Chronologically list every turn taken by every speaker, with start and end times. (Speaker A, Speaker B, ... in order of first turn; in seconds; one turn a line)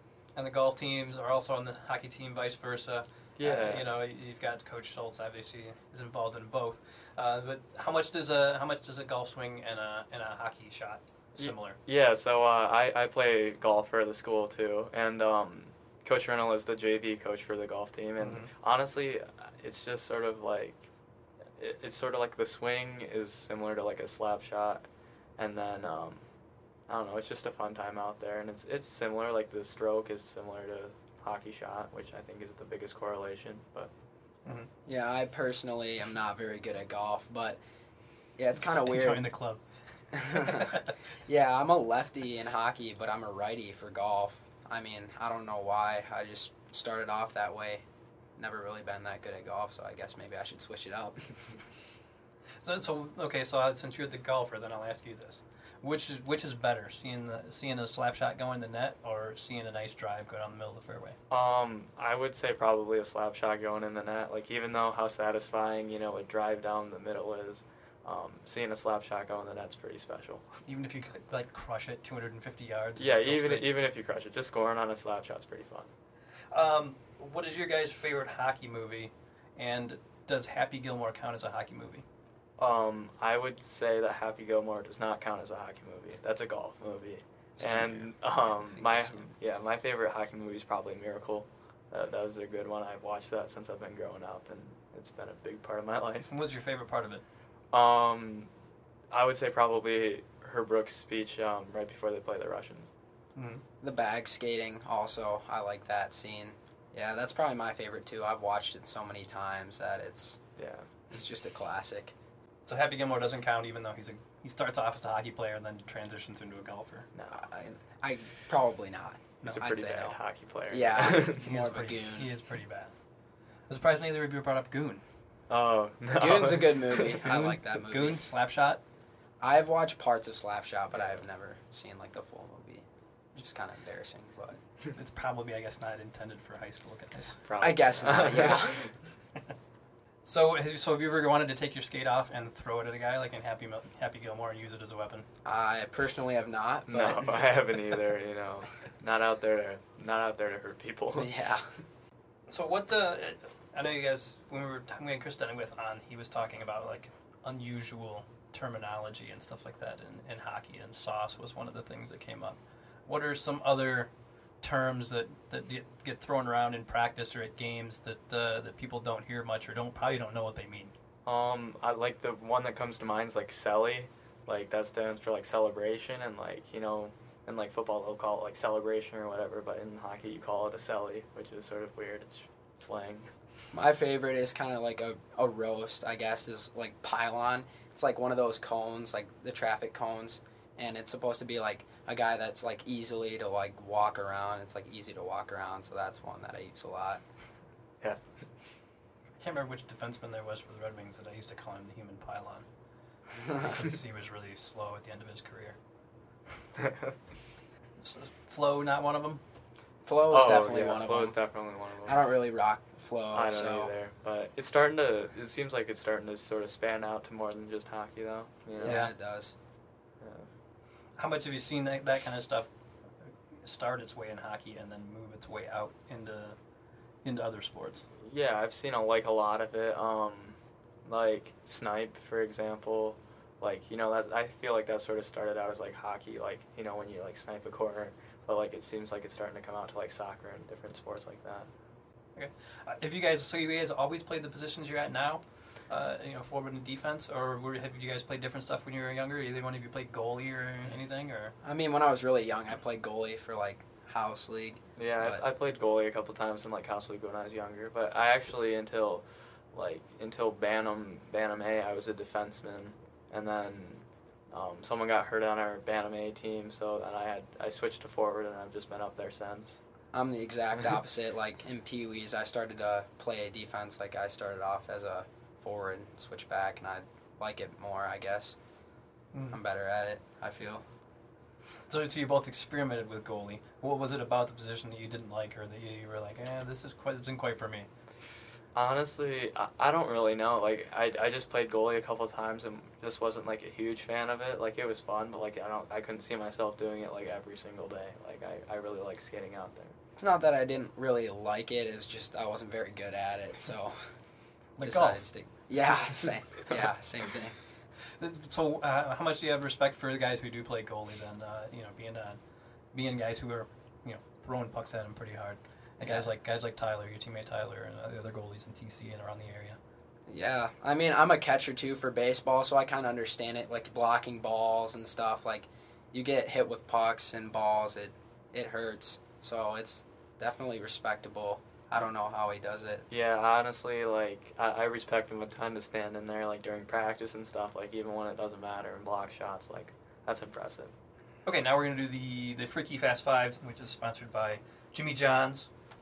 Speaker A: 0.4-11.8
Speaker B: 3.4-3.9
Speaker B: 11.4-20.9
Speaker A: 18.2-18.5
Speaker B: 21.6-26.3
Speaker B: 26.9-33.9
Speaker C: 34.9-37.6
Speaker C: 38.4-39.3
Speaker A: 38.8-39.6
Speaker C: 40.1-47.9
Speaker A: 40.2-40.9
Speaker C: 48.4-51.6
Speaker A: 52.6-61.2
Speaker B: 61.3-70.5
Speaker A: 70.7-73.7
Speaker B: 73.0-75.9
Speaker A: 76.5-82.0
Speaker B: 82.6-96.3
Speaker C: 87.6-89.3
Speaker A: 96.3-97.2
Speaker B: 97.7-98.5
Speaker B: 99.1-102.9
Speaker A: 103.4-103.6
Speaker C: 103.8-110.4
Speaker B: 110.6-110.9
Speaker C: 111.1-112.1
Speaker A: 112.7-117.1
Speaker B: 117.1-117.4
Speaker C: 117.3-122.3
Speaker B: 119.4-121.5
Speaker A: 121.4-122.9
Speaker A: 123.7-125.0
Speaker B: 125.5-127.4
Speaker C: 126.1-128.2
Speaker A: 127.2-128.8
Speaker C: 129.4-134.6
Speaker A: 134.9-137.4
Speaker B: 137.4-138.9
Speaker C: 137.6-138.9
Speaker A: 140.2-145.3
Speaker C: 145.4-147.5
Speaker B: 146.9-151.3
Speaker C: 151.1-151.7
Speaker A: 152.5-170.9
Speaker B: 171.2-183.3
Speaker C: 183.7-197.2
Speaker A: 199.4-202.7
Speaker C: 203.4-203.7
Speaker A: 203.5-205.8
Speaker B: 206.8-207.1
Speaker A: 208.0-209.4
Speaker C: 210.1-211.4
Speaker B: 210.3-212.2
Speaker C: 212.1-213.9
Speaker B: 213.3-219.1
Speaker C: 218.8-219.5
Speaker A: 218.8-219.1
Speaker B: 220.2-220.5
Speaker A: 221.2-222.7
Speaker A: 223.6-226.6
Speaker A: 227.2-228.1
Speaker B: 228.2-241.7
Speaker A: 242.3-251.5
Speaker C: 251.6-255.4
Speaker B: 255.0-269.8
Speaker C: 270.1-278.6
Speaker A: 279.3-279.6
Speaker C: 279.5-280.8
Speaker A: 281.9-287.9
Speaker B: 288.7-299.9
Speaker C: 300.1-304.0
Speaker A: 304.8-305.2
Speaker C: 304.8-307.6
Speaker A: 308.2-312.4
Speaker A: 312.9-319.8
Speaker C: 316.0-316.3
Speaker C: 320.3-333.1
Speaker B: 333.1-340.9
Speaker A: 341.5-345.7